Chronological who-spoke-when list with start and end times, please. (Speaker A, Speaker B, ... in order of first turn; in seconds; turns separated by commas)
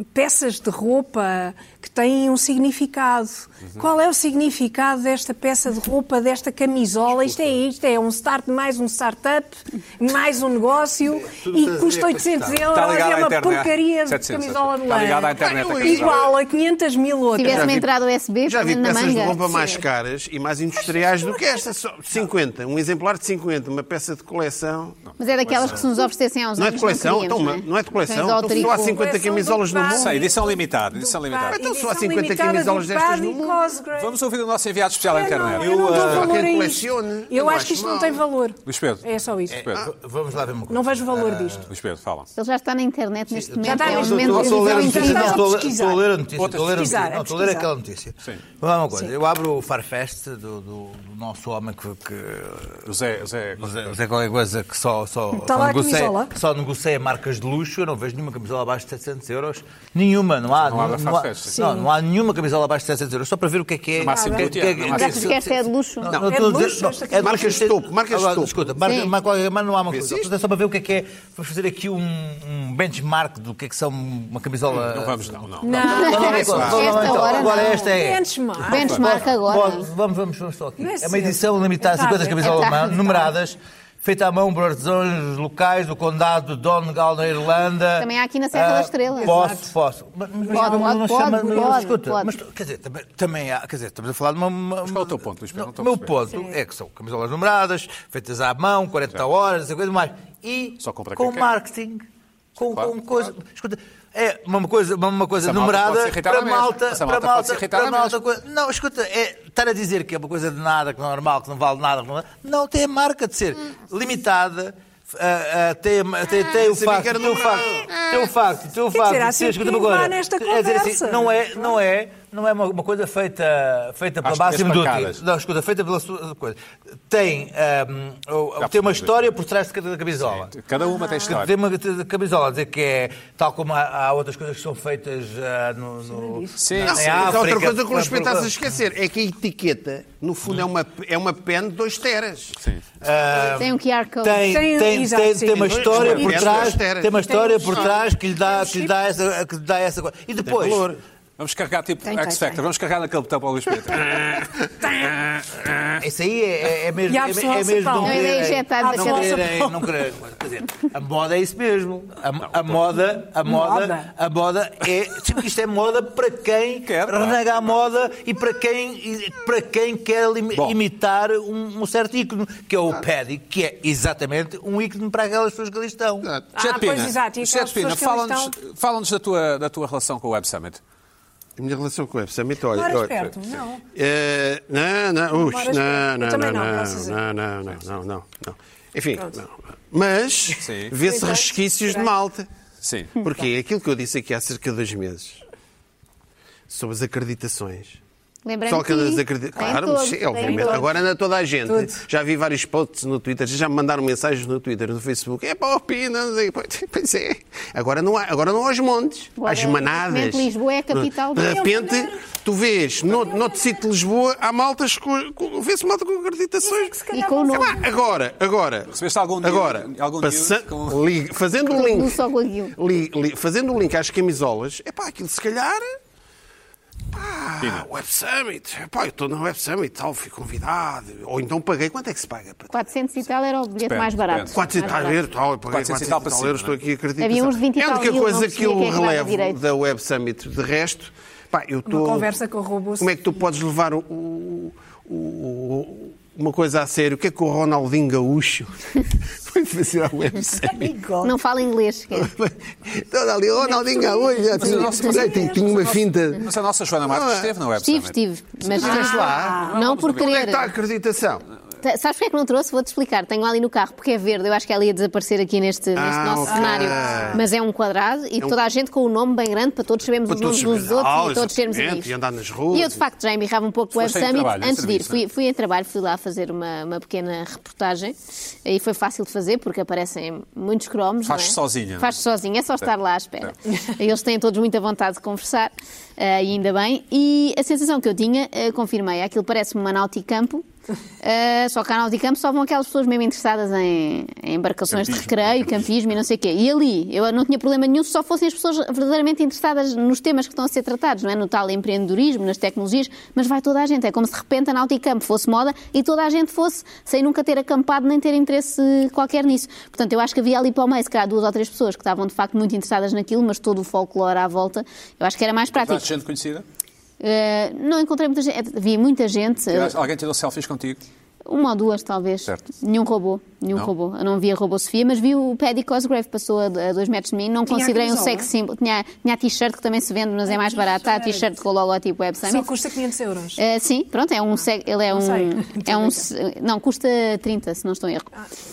Speaker A: 0.1-17.8, Speaker B: 11.2-12.7, Speaker C: 12.7-16.3, Speaker D: 15.4-16.3, Speaker E: 17.3-19.6, Speaker D: 17.4-17.9, Speaker D: 18.4-25.0, Speaker A: 19.3-19.8, Speaker A: 20.8-21.7, Speaker C: 25.1-25.8, Speaker E: 25.2-29.0, Speaker D: 26.6-30.3, Speaker A: 28.4-34.1, Speaker C: 29.9-31.6, Speaker D: 31.5-33.6, Speaker C: 33.9-36.3, Speaker A: 35.0-39.6, Speaker B: 35.6-36.4, Speaker D: 35.9-38.2, Speaker C: 38.6-39.9, Speaker B: 39.5-41.6, Speaker A: 40.7-41.6, Speaker C: 41.7-42.3, Speaker E: 42.4-45.5, Speaker B: 43.4-52.8, Speaker A: 43.6-46.1, Speaker C: 46.4-47.0, Speaker A: 46.7-47.7, Speaker C: 52.8-54.0, Speaker B: 53.6-78.2, Speaker A: 55.4-56.3, Speaker C: 60.6-61.5, Speaker A: 61.5-61.9, Speaker C: 64.0-65.4, Speaker A: 64.1-64.5, Speaker E: 64.9-66.1, Speaker A: 66.2-67.7, Speaker D: 67.2-68.5, Speaker E: 68.8-69.1, Speaker D: 69.9-70.3, Speaker C: 74.7-77.1, Speaker A: 75.6-79.0, Speaker E: 75.8-77.8, Speaker E: 78.7-79.8, Speaker C: 78.7-79.2, Speaker B: 78.8-130.5, Speaker A: 80.8-83.3, Speaker E: 82.4-82.9, Speaker E: 88.0-89.4, Speaker A: 89.2-89.7, Speaker A: 90.4-92.0, Speaker E: 90.5-92.3, Speaker C: 94.8-96.2, Speaker C: 100.8-101.5, Speaker C: 102.6-102.9, Speaker C: 105.4-108.2, Speaker D: 116.5-118.3, Speaker A: 118.9-121.8, Speaker C: 124.2-125.2, Speaker C: 128.6-129.3, Speaker C: 130.2-131.5, Speaker A: 130.9-131.3, Speaker B: 131.2-138.5, Speaker A: 136.1-136.6, Speaker C: 136.6-137.3, Speaker D: 136.9-142.6, Speaker B: 143.0-150.9, Speaker E: 143.5-144.5, Speaker A: 144.4-148.9, Speaker D: 145.7-147.8, Speaker D: 150.4-151.0, Speaker C: 151.4-154.4, Speaker A: 152.0-152.6, Speaker B: 156.0-176.3, Speaker A: 157.1-159.9, Speaker E: 158.0-159.4, Speaker C: 162.4-162.7, Speaker A: 163.4-164.1, Speaker C: 166.8-167.4, Speaker A: 176.5-178.5, Speaker C: 176.6-180.8, Speaker D: 181.6-183.3, Speaker A: 182.7-183.8, Speaker D: 183.9-192.5, Speaker A: 185.3-187.2, Speaker C: 190.6-190.9, Speaker A: 191.0-192.1, Speaker C: 192.8-193.1, Speaker D: 193.2-195.4, Speaker D: 196.7-198.0, Speaker E: 198.4-200.9, Speaker D: 198.7-216.9, Speaker A: 200.4-200.9, Speaker A: 201.7-202.0, Speaker E: 209.4-211.7, Speaker A: 211.4-212.2, Speaker A: 213.1-213.8, Speaker A: 216.6-217.9, Speaker E: 217.1-217.8, Speaker D: 217.5-222.2, Speaker C: 218.9-221.0, Speaker E: 221.7-222.7, Speaker D: 222.7-225.9, Speaker D: 227.1-232.7, Speaker C: 227.6-227.9, Speaker E: 232.7-235.2, Speaker C: 233.8-234.8, Speaker D: 234.5-242.3, Speaker C: 235.7-236.8, Speaker E: 237.2-239.6, Speaker A: 241.9-243.1, Speaker D: 243.0-250.9, Speaker A: 250.6-251.3, Speaker E: 251.2-252.3, Speaker D: 252.1-256.5, Speaker A: 253.6-256.0, Speaker C: 254.6-255.7, Speaker C: 256.3-260.4, Speaker D: 257.0-257.5, Speaker E: 257.8-260.7, Speaker D: 258.7-261.4, Speaker A: 258.8-259.8, Speaker E: 261.8-272.1, Speaker D: 265.9-267.4, Speaker A: 266.4-267.4, Speaker D: 270.2-273.0, Speaker E: 272.7-290.6, Speaker C: 273.9-275.2, Speaker C: 281.2-282.1, Speaker E: 291.2-316.1, Speaker C: 294.9-295.9, Speaker C: 315.7-316.6, Speaker E: 317.2-319.9, Speaker C: 319.7-321.0, Speaker E: 321.4-332.7, Speaker A: 327.7-328.5, Speaker A: 330.5-331.5, Speaker A: 332.4-333.6, Speaker E: 333.6-338.3, Speaker A: 335.1-336.3